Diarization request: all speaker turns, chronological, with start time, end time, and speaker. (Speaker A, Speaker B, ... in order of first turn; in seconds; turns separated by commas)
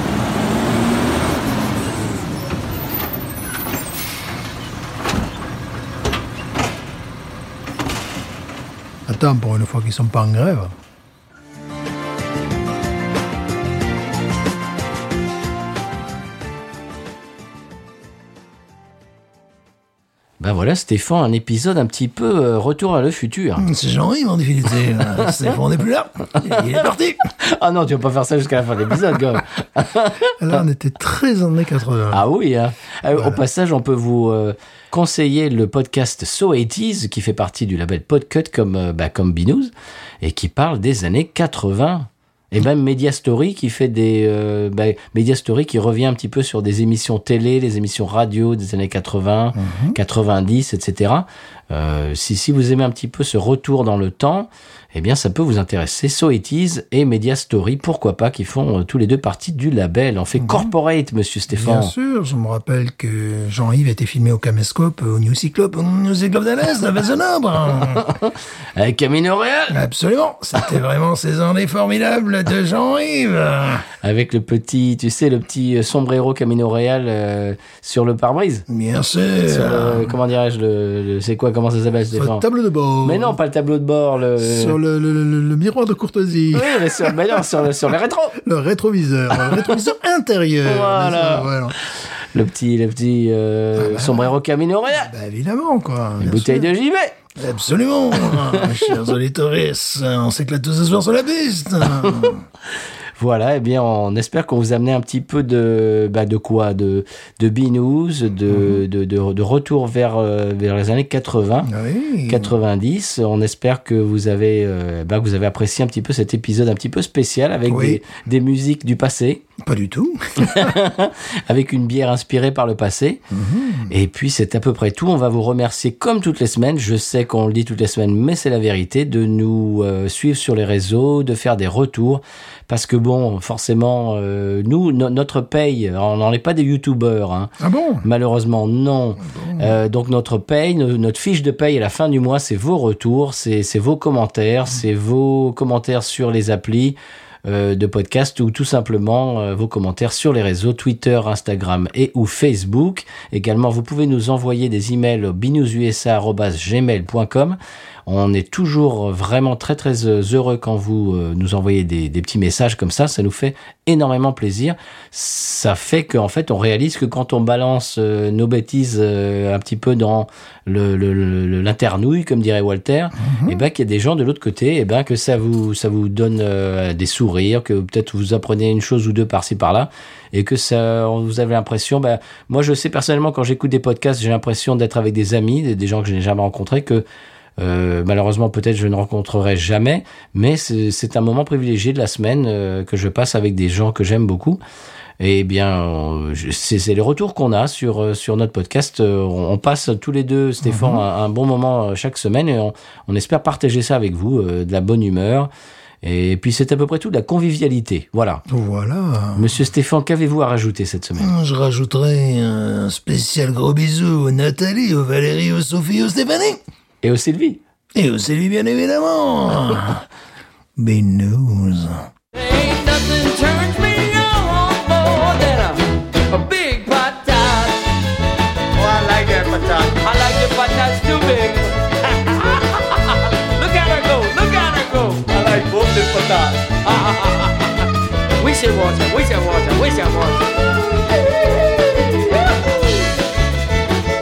Speaker A: 9.1-10.7, Speaker B: 20.4-23.7, Speaker A: 23.6-27.3, Speaker B: 26.5-26.9, Speaker B: 27.4-30.3, Speaker A: 30.4-32.2, Speaker B: 32.1-61.9, Speaker A: 33.1-33.4, Speaker A: 49.5-50.0, Speaker A: 60.4-60.7, Speaker A: 61.5-68.1, Speaker B: 67.9-69.8, Speaker A: 69.7-73.8, Speaker B: 74.0-78.6, Speaker A: 78.7-80.2, Speaker B: 79.5-82.4, Speaker A: 82.1-83.4, Speaker B: 83.0-84.8, Speaker A: 84.4-87.7, Speaker B: 86.5-88.4, Speaker A: 88.4-91.8, Speaker B: 90.6-91.5, Speaker B: 92.3-95.1, Speaker A: 93.8-94.3, Speaker A: 94.9-96.7, Speaker B: 96.2-97.2, Speaker A: 97.3-102.5, Speaker B: 98.3-98.8, Speaker B: 103.2-111.7, Speaker A: 108.5-108.8, Speaker A: 111.6-112.5, Speaker B: 112.3-119.4, Speaker A: 117.7-118.1, Speaker A: 119.6-120.7, Speaker B: 120.4-123.2, Speaker A: 123.3-123.9, Speaker B: 123.9-187.0, Speaker A: 137.6-138.0, Speaker A: 139.2-139.7, Speaker A: 173.2-173.6, Speaker B: 187.6-194.6, Speaker B: 195.2-205.5, Speaker A: 200.6-201.0, Speaker B: 206.0-208.4, Speaker A: 208.5-209.5, Speaker B: 209.3-211.3, Speaker A: 211.2-216.6, Speaker B: 217.0-217.6, Speaker A: 217.9-220.0, Speaker A: 220.8-222.1, Speaker C: 222.3-227.9, Speaker C: 228.7-243.1